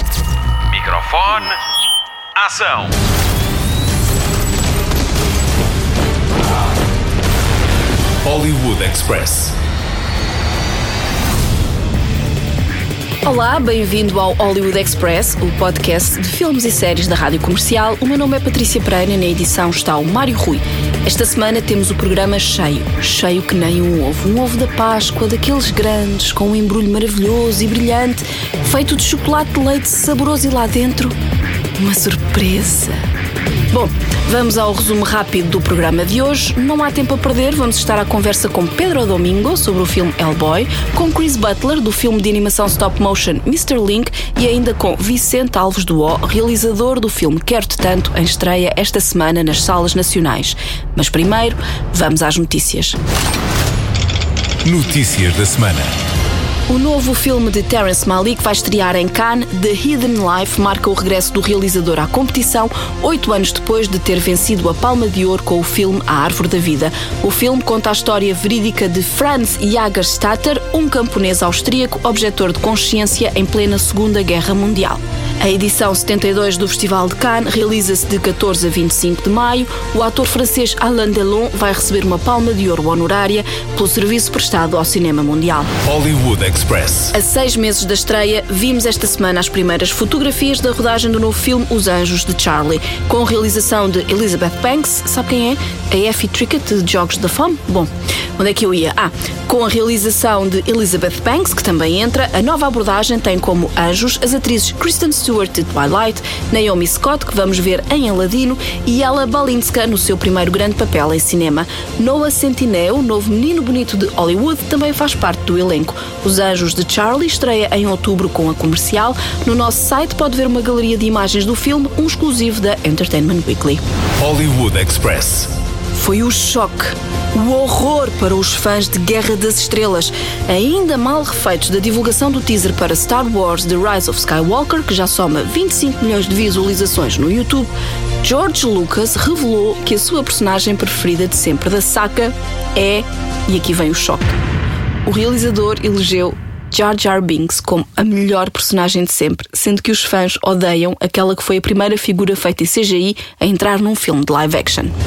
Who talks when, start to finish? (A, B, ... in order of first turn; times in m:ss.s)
0:00.7-0:01.6 A
0:02.4-0:02.9 A
0:08.2-0:09.6 A
0:13.2-0:31.1 B
0:31.8-0:33.0 B
0:33.7-0:53.0 B
0:54.6-0:55.9 A
0:56.7-1:25.7 B
1:25.8-1:27.1 A
1:27.1-2:03.8 B
2:04.2-2:05.5 A
2:05.9-2:17.7 B
2:18.2-2:24.4 B
2:25.0-2:34.9 B